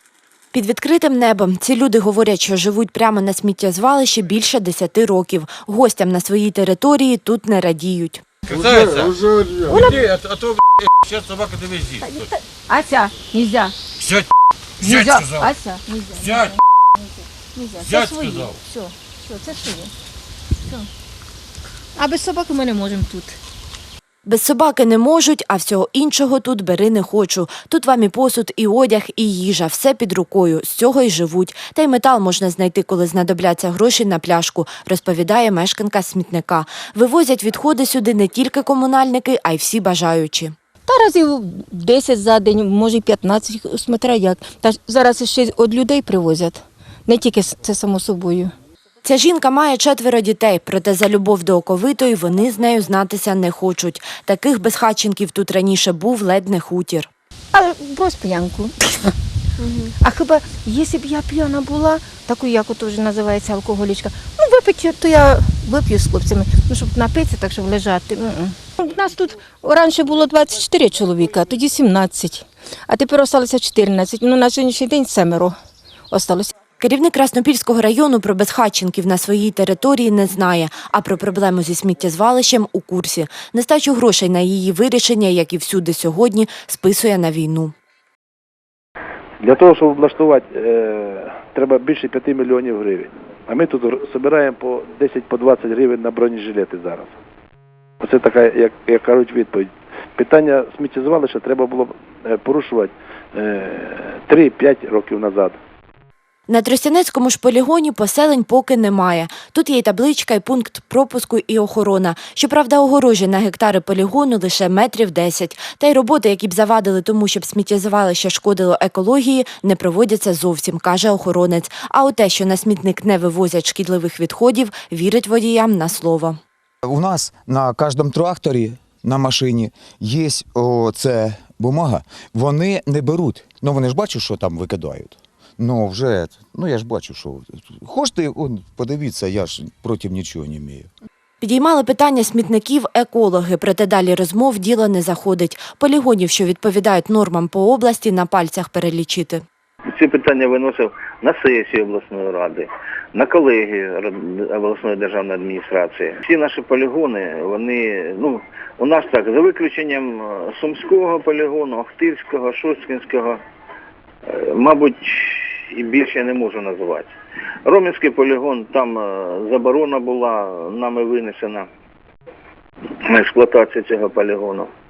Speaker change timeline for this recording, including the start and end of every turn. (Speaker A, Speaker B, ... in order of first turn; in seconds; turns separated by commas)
Speaker A: 0.5-8.2, Speaker B: 8.5-9.2, Speaker C: 9.6-10.2, Speaker B: 9.9-12.1, Speaker C: 12.0-13.8, Speaker B: 14.0-14.3, Speaker C: 14.8-19.9, Speaker B: 14.9-15.5, Speaker B: 17.9-18.6, Speaker C: 20.6-20.9, Speaker C: 22.0-23.4, Speaker A: 24.3-40.5, Speaker C: 40.9-48.5, Speaker A: 49.0-57.1, Speaker C: 57.5-59.1, Speaker C: 60.0-75.5, Speaker C: 76.1-76.5, Speaker A: 76.8-87.7, Speaker D: 89.4-97.1, Speaker D: 98.0-105.6, Speaker A: 106.5-126.4, Speaker E: 126.9-140.9, Speaker A: 141.4-149.4, Speaker F: 149.9-163.4, Speaker F: 164.3-167.1, Speaker F: 167.7-171.7, Speaker F: 173.1-174.7